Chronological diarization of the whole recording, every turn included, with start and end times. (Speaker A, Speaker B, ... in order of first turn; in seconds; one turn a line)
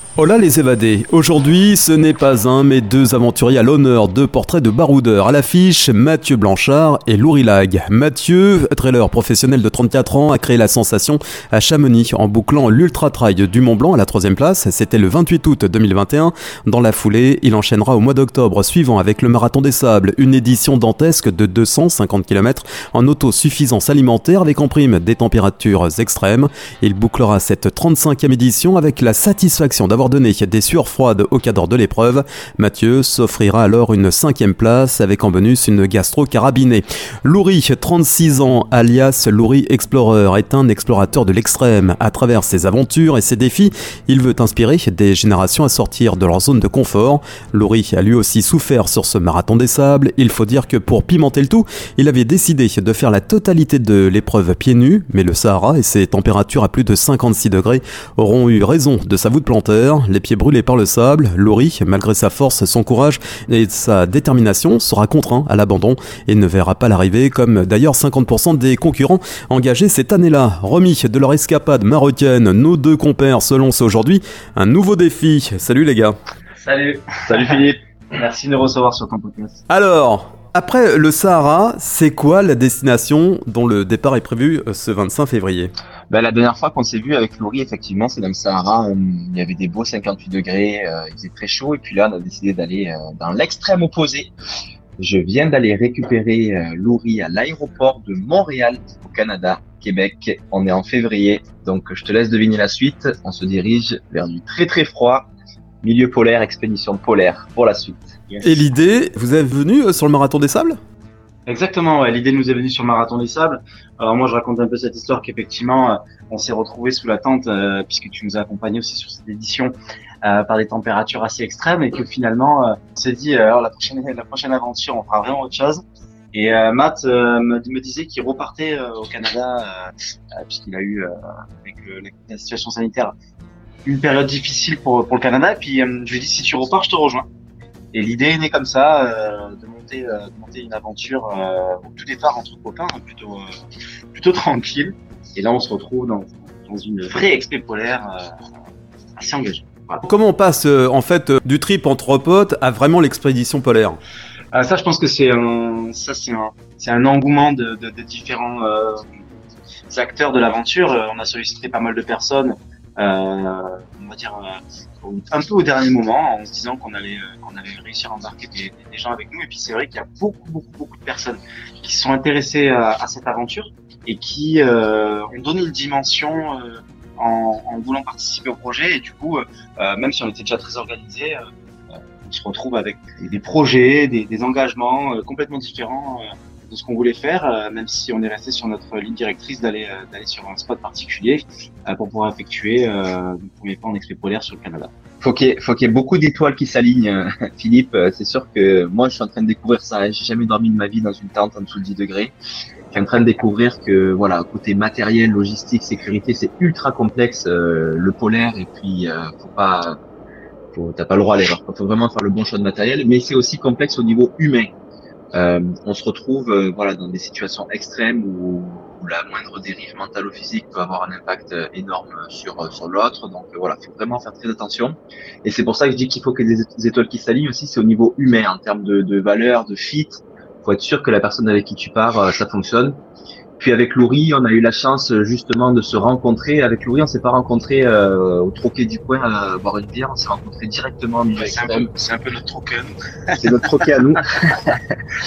Speaker A: 0.2-76.2
Speaker B: 76.6-79.6
Speaker C: 77.2-77.8
Speaker A: 79.7-85.7
Speaker C: 86.1-94.3
Speaker C: 95.0-105.3
Speaker C: 105.8-108.2
Speaker B: 108.3-108.6
Speaker A: 108.4-110.8
Speaker B: 111.5-125.8
Speaker B: 126.3-133.1
Speaker B: 133.8-137.2
Speaker B: 137.9-143.5
Speaker B: 144.1-148.3
Speaker B: 149.2-150.0
Speaker A: 150.0-154.0
Speaker B: 154.5-159.1
Speaker B: 159.9-194.9
Speaker C: 195.2-202.3
Speaker C: 202.9-210.0
Speaker C: 210.7-214.7
Speaker C: 215.3-233.0
Speaker C: 233.6-241.9
Speaker B: 241.3-243.9
Speaker C: 243.4-244.8